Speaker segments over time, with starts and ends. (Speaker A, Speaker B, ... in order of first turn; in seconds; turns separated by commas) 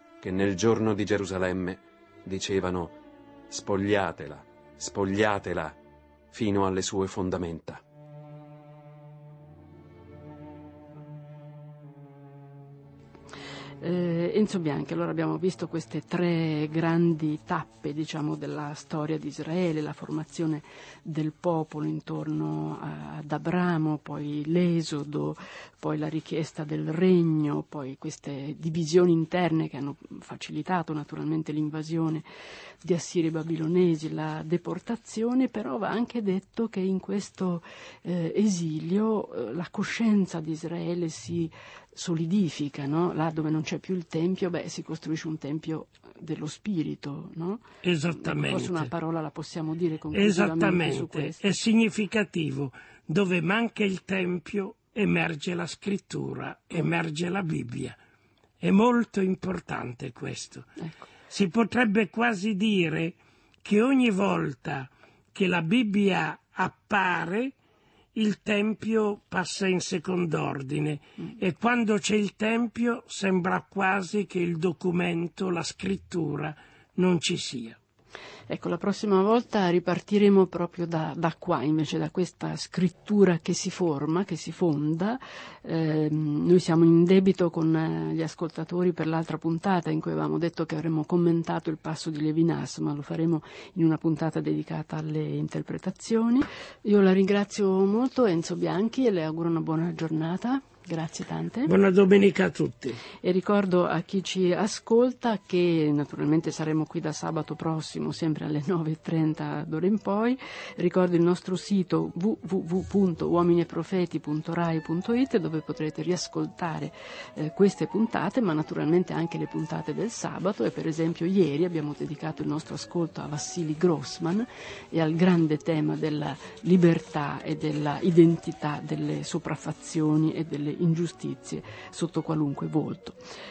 Speaker A: 0.2-3.0, Speaker A: 3.5-5.8, Speaker A: 6.3-7.8, Speaker B: 13.8-32.3, Speaker B: 32.8-47.6, Speaker C: 47.8-48.9, Speaker B: 48.2-51.5, Speaker C: 50.1-58.0, Speaker C: 58.6-60.8, Speaker C: 61.3-67.5, Speaker C: 68.2-77.8, Speaker B: 78.5-101.7, Speaker C: 101.7-103.0, Speaker B: 103.2-133.2